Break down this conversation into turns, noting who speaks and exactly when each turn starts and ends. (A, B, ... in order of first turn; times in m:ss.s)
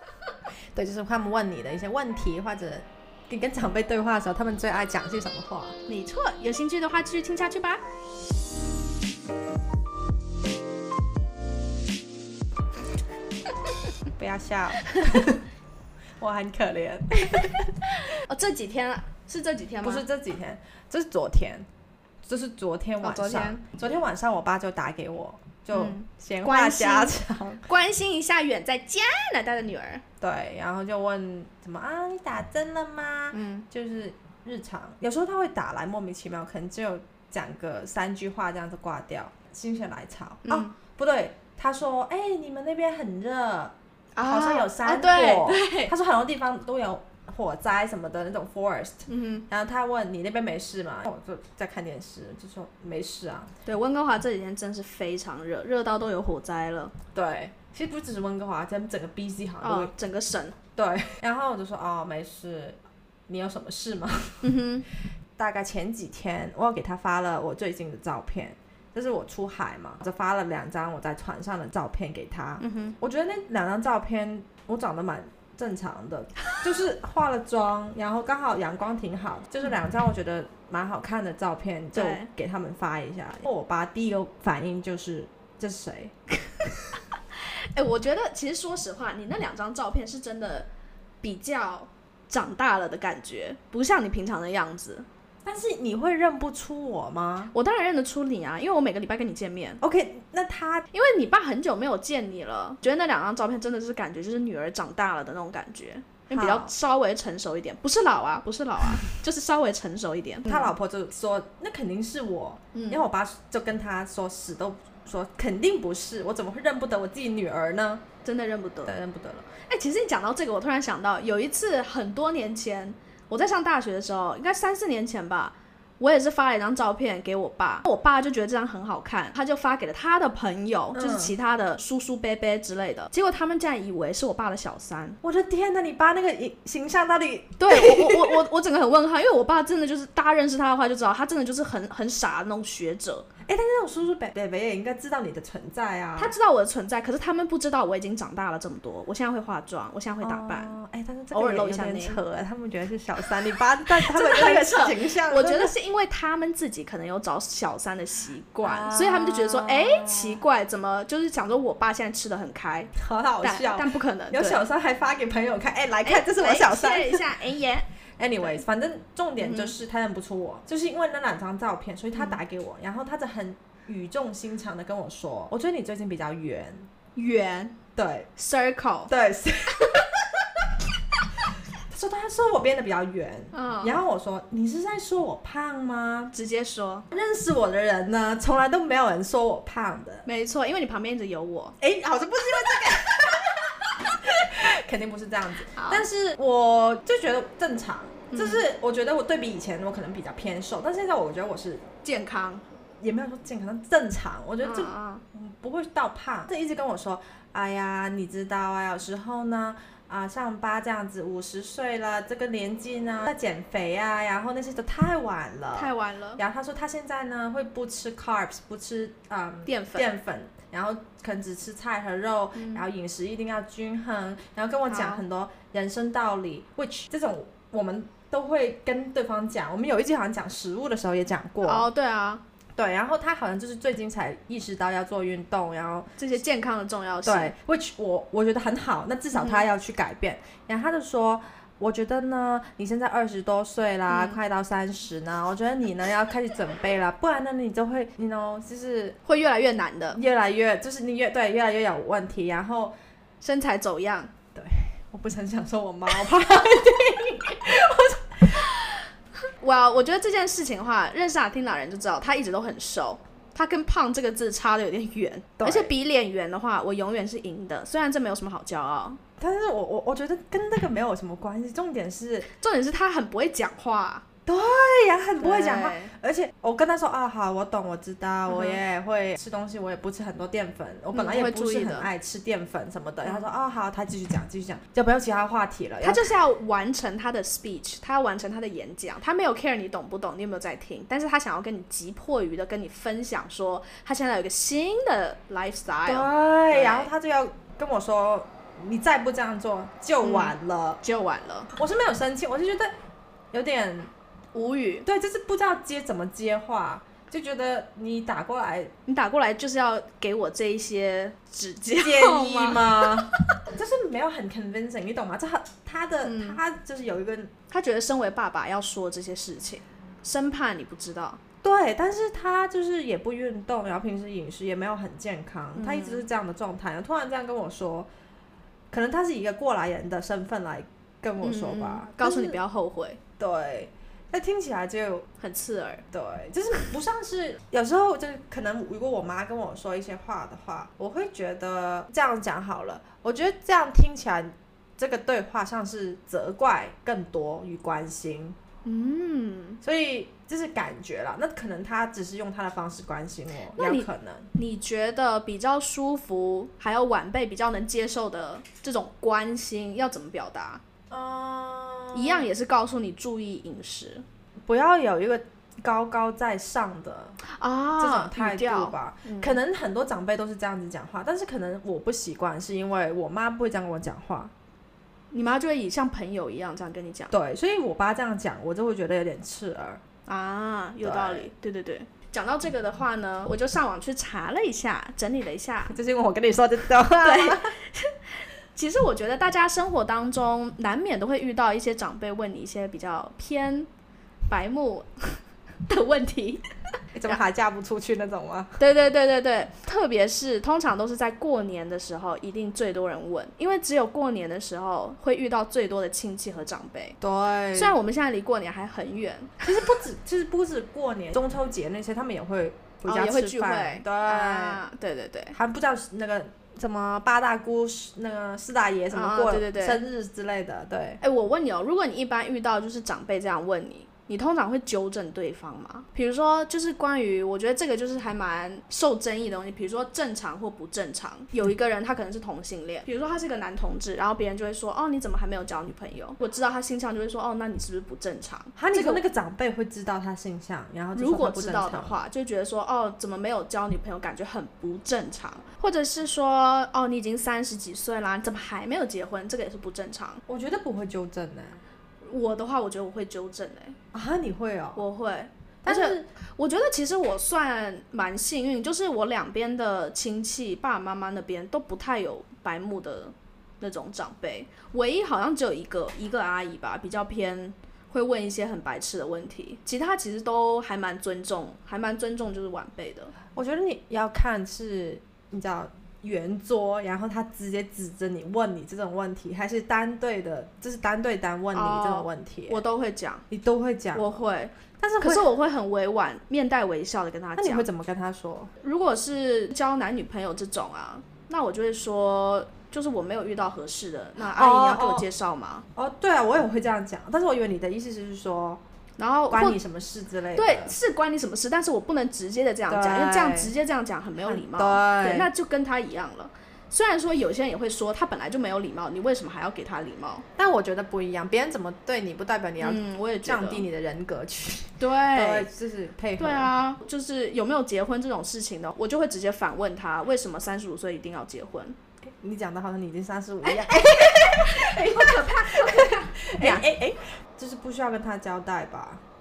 0:00.7-0:05.8 A
0:05.9-0:07.8 B
0:14.2-0:15.4 A
0:14.9-0:15.2 B
0:16.2-0:17.6 A
0:17.2-0:20.0 B
0:19.8-0:21.7 A
0:22.2-0:27.7 A
0:23.0-0:23.6 B
0:25.7-0:30.0 B
0:30.2-0:53.5 A
0:33.3-0:33.7 B
0:40.4-0:40.7 B
0:44.2-0:45.9 B
0:49.1-0:49.4 B
0:53.6-0:57.0 B
0:57.1-0:59.9 A
0:59.6-1:00.6 B
1:00.8-1:04.5 A
1:04.4-1:04.9 B
1:05.4-1:26.1 A
1:12.6-1:13.0 B
1:21.9-1:22.3 B
1:27.4-1:30.7 B
1:31.2-1:35.1 B
1:35.4-1:37.5 A
1:37.5-1:39.8 B
1:39.8-1:40.9 A
1:40.9-1:50.7 B
1:46.3-1:46.7 A
1:50.4-1:58.0 A
1:52.7-1:53.0 B
1:58.2-1:59.0 B
1:58.8-1:59.5 A
1:59.6-2:15.2 B
2:10.9-2:11.3 A
2:15.2-2:18.4 A
2:17.6-2:23.3 B
2:23.4-2:26.3 A
2:26.2-2:30.7 B
2:30.2-2:35.7 A
2:31.3-2:32.2 B
2:34.0-2:44.6 B
2:38.6-2:40.4 A
2:43.0-2:47.2 A
2:46.0-2:47.9 B
2:48.2-2:56.9 A
2:49.4-2:49.8 B
2:57.2-2:57.8 B
2:58.0-2:58.3 A
2:58.4-2:59.1 B
2:59.1-3:00.1 A
3:01.9-3:06.3 A
3:03.5-3:04.0 B
3:06.3-3:07.1 B
3:07.1-3:10.2 A
3:10.2-3:11.8 B
3:11.8-3:21.8 A
3:15.7-3:16.0 B
3:18.3-3:18.6 B
3:22.0-3:22.6 B
3:23.0-3:51.9 A
3:24.6-3:25.2 B
3:35.8-3:36.4 B
3:39.7-3:40.1 B
3:42.6-3:42.8 B
3:44.9-3:45.2 B
3:51.6-3:52.4 B
3:52.8-3:56.2 A
3:56.2-3:57.5 B
3:57.2-4:09.2 A
3:59.3-3:59.7 B
4:04.1-4:04.4 B
4:09.2-4:10.2 B
4:10.1-4:12.9 A
4:13.4-4:14.3 B
4:14.6-4:18.6 A
4:18.6-4:18.8 B
4:19.6-4:29.2 B
4:25.6-4:25.9 A
4:29.4-4:32.5 A
4:32.4-4:34.2 B
4:34.4-4:46.3 A
4:35.4-4:36.1 B
4:38.5-4:38.8 B
4:41.1-4:42.1 B
4:46.0-4:57.1 B
4:56.1-5:01.0 A
5:00.2-5:01.7 B
5:01.8-5:02.9 A
5:03.5-5:04.1 A
5:04.5-5:05.1 B
5:05.0-5:08.9 A
5:09.1-5:13.4 B
5:11.9-5:17.5 A
5:16.2-5:16.6 B
5:17.7-5:21.4 B
5:21.6-5:28.1 A
5:25.8-5:26.3 B
5:28.9-5:32.6 A
5:31.4-5:33.2 B
5:33.4-5:35.2 A
5:35.4-5:36.0 B
5:36.1-5:48.6 A
5:48.8-5:49.8 B
5:49.8-5:54.5 A
5:53.7-6:00.8 B
6:01.1-6:02.5 A
6:02.1-6:04.2 B
6:04.7-6:07.4 A
6:07.4-6:09.6 B
6:08.0-6:14.5 A
6:15.3-6:17.3 B
6:17.3-6:20.0 A
6:20.2-6:25.9 B
6:21.0-6:21.5 A
6:25.9-6:27.8 A
6:27.2-6:33.9 B
6:34.5-6:36.6 B
6:37.1-6:38.8 A
6:38.8-6:47.2 B
6:47.2-6:48.0 A
6:47.7-6:49.6 B
6:49.6-6:54.8 A
6:53.1-6:55.6 B
6:55.5-7:01.2 A
6:59.1-7:00.0 B
7:01.2-7:19.2 B
7:18.8-7:22.2 A
7:21.1-7:30.4 B
7:30.5-7:31.8 A
7:32.2-7:34.0 B
7:34.1-7:35.0 A
7:35.0-7:53.3 B
7:35.8-7:36.3 A
7:53.6-8:02.8 A
8:01.7-8:03.4 B
8:03.5-8:04.4 A
8:04.1-8:07.9 B
8:05.0-8:05.5 A
8:07.6-8:08.7 A
8:08.8-8:15.9 B
8:14.4-8:15.3 A
8:16.0-8:18.8 A
8:19.2-8:19.8 B
8:19.5-8:21.0 A
8:20.6-8:30.4 B
8:22.9-8:23.7 A
8:24.4-8:25.5 A
8:30.6-8:36.7 A
8:32.8-8:33.9 B
8:35.0-8:35.7 B
8:36.4-8:42.0 B
8:42.2-8:49.2 A
8:43.6-8:46.8 B